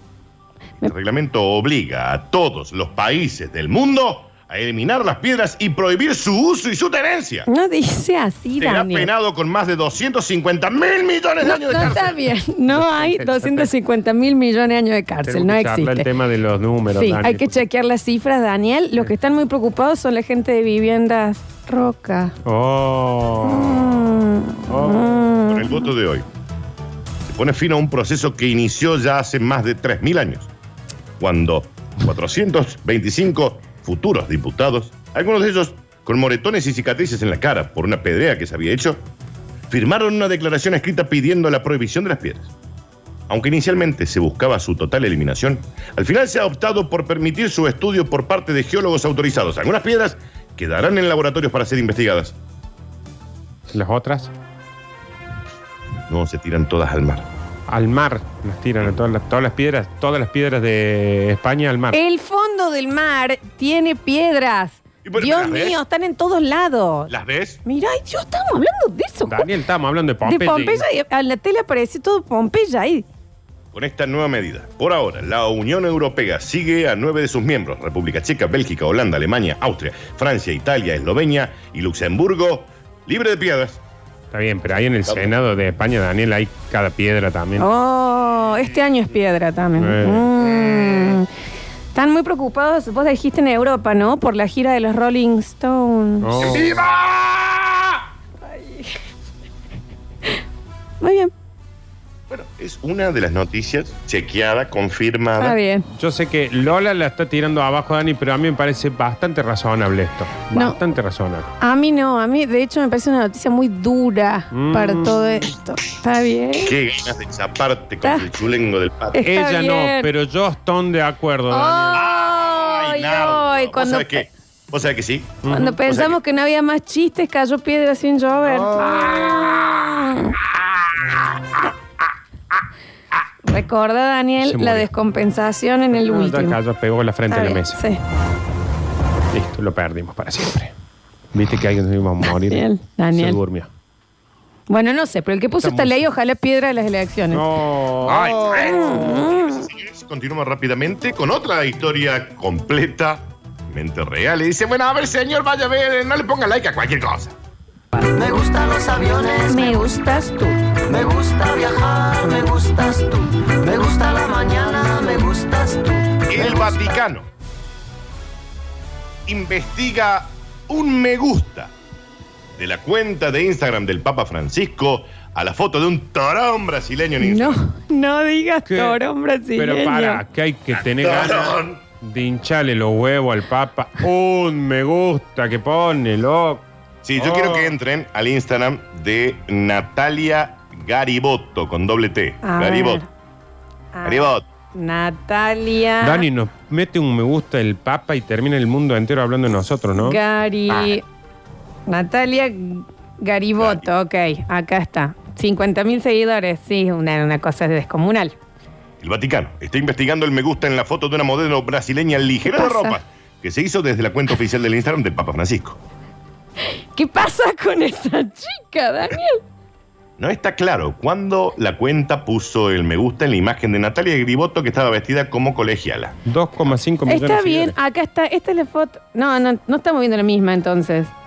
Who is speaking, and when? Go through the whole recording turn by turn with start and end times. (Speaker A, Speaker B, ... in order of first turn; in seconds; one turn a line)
Speaker A: 0.8-7.5
Speaker B: 7.5-9.1
Speaker A: 8.6-12.2
Speaker B: 11.4-16.1
Speaker C: 12.7-13.7
Speaker C: 15.2-17.6
Speaker B: 16.9-22.3
Speaker C: 22.4-24.1
Speaker B: 23.4-25.9
Speaker C: 24.7-25.3
Speaker A: 25.4-26.3
Speaker A: 27.2-30.5
Speaker A: 31.2-39.0
Speaker A: 39.7-42.5
Speaker A: 43.3-52.4
Speaker C: 53.7-54.3
Speaker A: 56.1-57.3
Speaker C: 57.7-62.0
Speaker B: 61.9-67.1
Speaker A: 65.0-65.8
Speaker A: 67.1-67.6
Speaker B: 67.6-69.5
Speaker C: 69.3-70.8
Speaker B: 70.2-73.0
Speaker A: 73.7-83.8
Speaker C: 84.3-87.7
Speaker B: 87.6-91.3
Speaker C: 89.8-90.3
Speaker B: 91.9-96.4
Speaker C: 96.2-96.8
Speaker A: 96.4-98.0
Speaker B: 98.5-98.9
Speaker B: 101.0-101.3
Speaker A: 102.3-105.5
Speaker B: 105.4-105.9
Speaker C: 106.0-111.5
Speaker B: 110.5-110.8
Speaker B: 111.6-116.7
Speaker C: 114.5-115.2
Speaker A: 116.6-119.2
Speaker B: 119.1-120.1
Speaker C: 119.2-122.0
Speaker B: 121.5-124.3
Speaker A: 121.9-126.2
Speaker C: 125.4-125.8
Speaker B: 125.5-130.4
Speaker C: 128.4-129.4
Speaker B: 133.4-136.6
Speaker C: 134.4-134.9
Speaker C: 135.9-137.8
Speaker B: 137.3-138.0
Speaker C: 139.3-140.7
Speaker C: 141.3-143.7
Speaker B: 142.5-143.4
Speaker B: 144.7-147.4
Speaker C: 145.6-146.0
Speaker C: 147.3-148.8
Speaker A: 148.0-157.3
Speaker B: 148.5-149.7
Speaker D: 158.0-167.0
Speaker B: 159.5-160.5
Speaker A: 166.3-167.3
Speaker A: 169.2-171.7
Speaker A: 172.6-177.6
Speaker B: 177.2-180.2
Speaker C: 178.7-179.0
Speaker C: 179.6-186.6
Speaker A: 180.7-181.8
Speaker A: 187.0-193.0
Speaker C: 187.2-187.7
Speaker B: 192.4-193.1
Speaker B: 193.9-196.2
Speaker A: 194.0-194.5
Speaker C: 196.0-200.2
Speaker B: 200.0-201.0
Speaker B: 201.9-208.3
Speaker A: 203.6-203.8
Speaker A: 209.0-215.8
Speaker B: 212.4-213.0
Speaker B: 216.6-219.4
Speaker A: 220.2-226.2
Speaker C: 226.2-227.7
Speaker B: 227.1-231.1